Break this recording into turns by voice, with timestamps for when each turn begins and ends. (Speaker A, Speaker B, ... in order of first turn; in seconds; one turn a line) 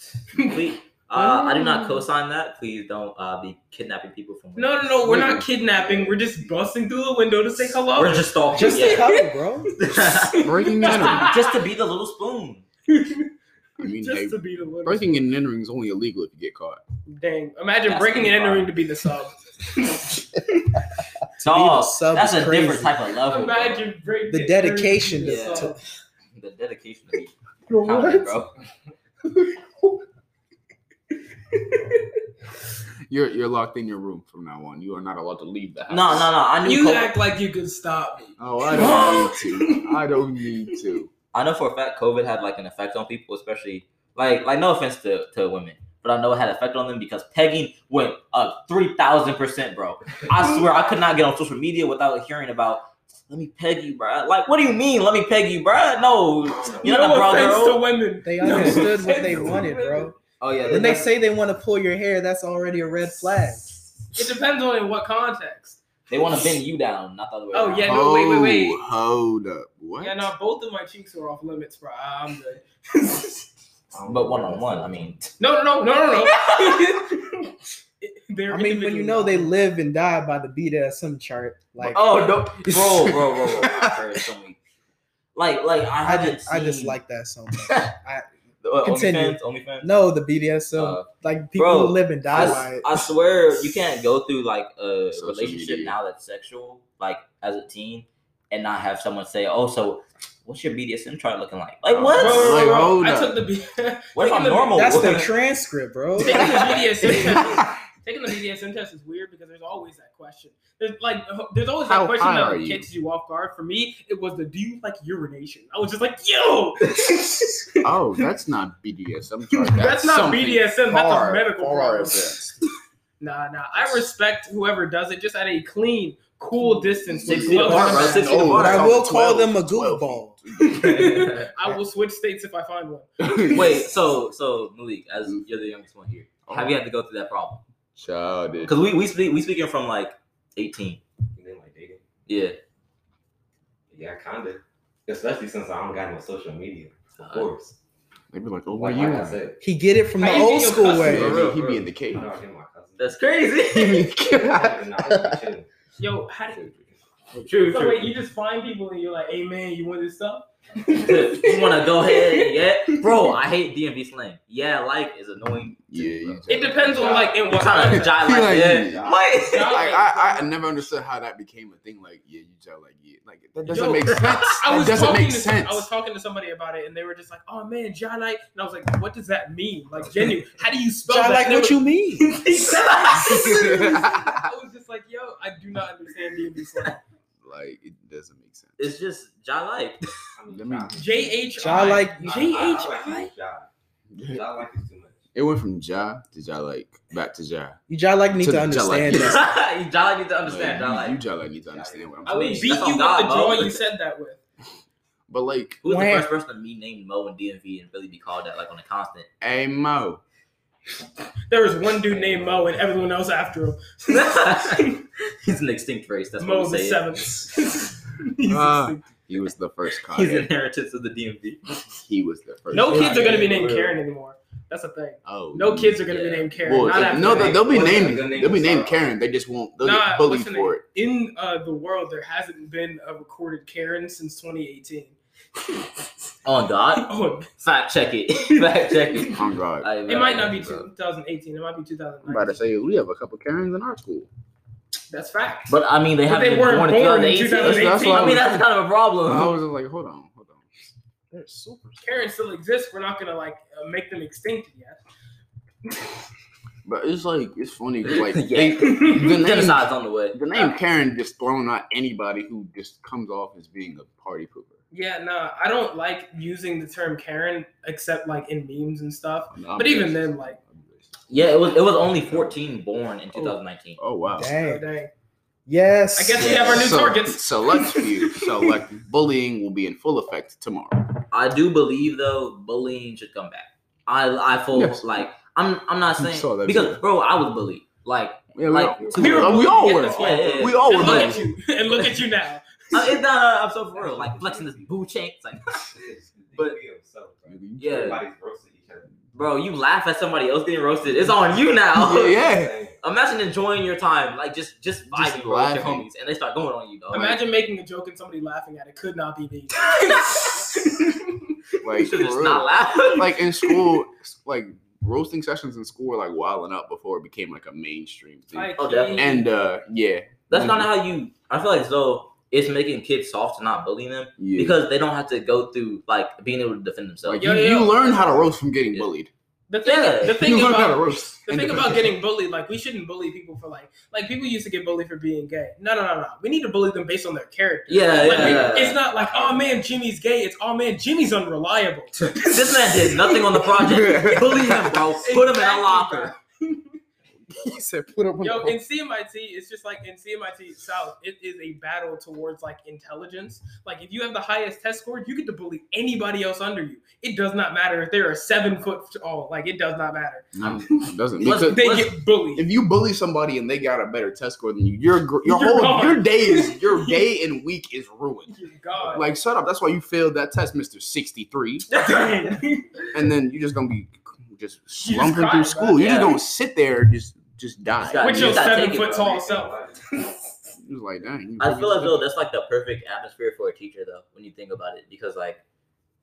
Speaker A: 0.3-0.6
Speaker B: 0.3-4.9
Speaker A: 1.1-1.9
Speaker A: 4.5-9.3
Speaker C: 5.0-6.3
Speaker B: 7.9-9.1
Speaker D: 8.5-9.7
Speaker B: 9.8-12.6
Speaker A: 9.8-11.6
Speaker C: 10.4-11.3
Speaker A: 12.9-15.2
Speaker C: 13.8-16.8
Speaker A: 17.1-20.5
Speaker B: 17.8-18.7
Speaker D: 21.4-22.9
Speaker B: 21.4-23.9
Speaker A: 23.2-25.8
Speaker D: 24.3-25.8
Speaker B: 25.2-25.7
Speaker B: 26.3-28.5
Speaker D: 27.7-28.4
Speaker A: 31.5-31.9
Speaker C: 33.1-36.3
Speaker B: 35.9-37.1
Speaker A: 36.6-40.0
Speaker C: 38.4-41.1
Speaker B: 38.7-39.3
Speaker B: 41.3-57.8
Speaker E: 56.4-57.6
Speaker A: 56.8-60.1
Speaker D: 58.2-63.7
Speaker B: 58.4-58.9
Speaker C: 59.3-59.5
Speaker B: 60.4-61.1
Speaker A: 64.1-65.8
Speaker B: 66.1-68.0
Speaker A: 67.5-68.8
Speaker C: 67.8-70.3
Speaker A: 70.0-73.5
Speaker E: 73.9-75.3
Speaker B: 74.0-75.3
Speaker A: 75.4-79.5
Speaker B: 76.2-77.0
Speaker D: 78.5-83.1
Speaker B: 81.8-84.6
Speaker B: 85.3-87.0
Speaker D: 86.0-88.3
Speaker B: 87.7-87.9
Speaker B: 88.6-89.9
Speaker D: 88.8-93.1
Speaker B: 90.7-102.7
Speaker C: 92.3-92.6
Speaker C: 95.1-95.9
Speaker C: 101.9-103.4
Speaker A: 102.1-104.9
Speaker B: 104.1-105.3
Speaker D: 104.7-106.7
Speaker A: 106.2-117.8
Speaker B: 106.2-107.2
Speaker C: 107.0-107.8
Speaker C: 111.8-112.9
Speaker C: 117.8-122.6
Speaker A: 119.5-122.4
Speaker A: 123.2-128.8
Speaker C: 123.8-124.0
Speaker C: 126.9-131.0
Speaker B: 127.2-128.9
Speaker D: 127.4-130.4
Speaker A: 130.6-133.7
Speaker B: 130.7-131.5
Speaker C: 133.2-133.8
Speaker B: 133.5-137.6
Speaker C: 136.4-136.7
Speaker C: 137.9-138.7
Speaker B: 138.6-141.0
Speaker E: 141.3-142.0
Speaker B: 142.3-142.6
Speaker E: 143.9-147.8
Speaker B: 147.2-147.5
Speaker C: 148.3-149.4
Speaker E: 148.7-149.6
Speaker D: 149.6-151.4
Speaker A: 150.2-151.3
Speaker B: 150.8-151.8
Speaker C: 151.0-152.3
Speaker E: 152.1-153.2
Speaker B: 153.0-154.1
Speaker C: 153.7-155.3
Speaker E: 154.2-155.7
Speaker A: 156.0-156.7
Speaker B: 157.3-158.1
Speaker A: 157.7-163.2
Speaker B: 160.9-169.8
Speaker C: 165.5-175.9
Speaker A: 166.5-168.4
Speaker E: 166.9-167.8
Speaker E: 168.7-169.4
Speaker A: 169.3-170.6
Speaker D: 173.6-173.9
Speaker A: 173.7-187.0
Speaker B: 174.1-174.6
Speaker C: 180.0-180.3
Speaker D: 181.1-182.3
Speaker B: 182.7-183.7
Speaker C: 183.3-184.5
Speaker C: 187.4-188.9
Speaker B: 188.8-190.0
Speaker E: 190.3-193.7
Speaker C: 190.5-191.0
Speaker A: 190.9-193.3
Speaker D: 191.6-192.4
Speaker C: 194.1-194.6
Speaker E: 194.2-195.2
Speaker C: 195.3-197.8
Speaker D: 197.9-199.5
Speaker C: 198.4-199.4
Speaker B: 199.1-201.2
Speaker C: 200.4-202.6
Speaker E: 201.6-202.7
Speaker B: 202.2-203.8
Speaker A: 202.3-204.4
Speaker C: 205.3-205.8
Speaker D: 205.8-206.3
Speaker B: 205.8-209.3
Speaker C: 209.4-210.2
Speaker A: 211.5-215.0
Speaker B: 214.1-217.1
Speaker A: 216.4-219.0
Speaker C: 218.5-220.5
Speaker B: 220.1-221.8
Speaker C: 221.9-223.6
Speaker A: 222.7-227.8
Speaker B: 222.8-223.9
Speaker C: 225.2-226.1
Speaker B: 226.1-228.2
Speaker C: 226.6-230.8
Speaker E: 227.3-229.1
Speaker A: 229.8-235.9
Speaker B: 236.4-240.8
Speaker A: 236.9-237.5
Speaker A: 238.4-239.4
Speaker C: 239.3-239.9
Speaker A: 240.1-242.6
Speaker C: 240.6-240.8
Speaker C: 242.2-244.3
Speaker A: 245.1-245.7
Speaker B: 245.7-249.5
Speaker A: 246.2-248.5
Speaker C: 247.6-248.7
Speaker C: 249.2-250.9
Speaker D: 251.3-252.0
Speaker A: 252.0-255.0
Speaker C: 256.8-264.8
Speaker B: 258.1-260.4
Speaker A: 258.8-259.4
Speaker A: 264.9-270.6
Speaker C: 269.5-271.6
Speaker B: 271.3-274.0
Speaker C: 272.2-272.6
Speaker C: 273.3-274.5
Speaker D: 274.4-274.8
Speaker A: 274.6-275.1
Speaker D: 275.7-276.6
Speaker A: 276.1-278.8
Speaker B: 276.4-276.9
Speaker C: 276.6-281.1
Speaker B: 281.3-292.1
Speaker C: 284.7-285.3
Speaker C: 286.2-287.0
Speaker C: 288.5-291.5
Speaker E: 289.0-290.5
Speaker A: 289.1-293.2
Speaker B: 292.9-296.8
Speaker E: 293.9-294.9
Speaker E: 295.9-299.1
Speaker C: 297.5-298.2
Speaker B: 297.8-298.2
Speaker B: 299.3-302.4
Speaker C: 301.9-302.8
Speaker E: 302.3-303.0
Speaker B: 303.0-307.4
Speaker C: 305.1-306.1
Speaker A: 307.1-311.6
Speaker B: 309.9-310.6
Speaker C: 311.8-320.9
Speaker B: 312.0-313.4
Speaker A: 318.5-319.4
Speaker B: 318.8-319.4
Speaker B: 320.5-327.5
Speaker C: 324.4-324.8
Speaker C: 327.2-329.3
Speaker A: 327.4-328.5
Speaker A: 329.7-343.4
Speaker B: 329.8-330.4
Speaker C: 330.3-332.1
Speaker B: 337.9-339.0
Speaker C: 338.3-338.7
Speaker E: 338.9-339.8
Speaker B: 342.4-346.3
Speaker C: 343.8-345.0
Speaker A: 344.2-347.0
Speaker C: 347.5-348.8
Speaker A: 348.4-362.7
Speaker C: 360.5-361.9
Speaker B: 361.4-362.1
Speaker C: 362.5-368.5
Speaker A: 365.4-367.3
Speaker A: 368.5-369.3
Speaker C: 369.1-371.9
Speaker A: 371.9-373.1
Speaker C: 373.1-378.6
Speaker A: 375.0-376.2
Speaker B: 376.0-376.4
Speaker B: 378.0-379.3
Speaker A: 378.2-380.5
Speaker E: 378.8-380.0
Speaker C: 380.8-382.3
Speaker B: 381.6-385.6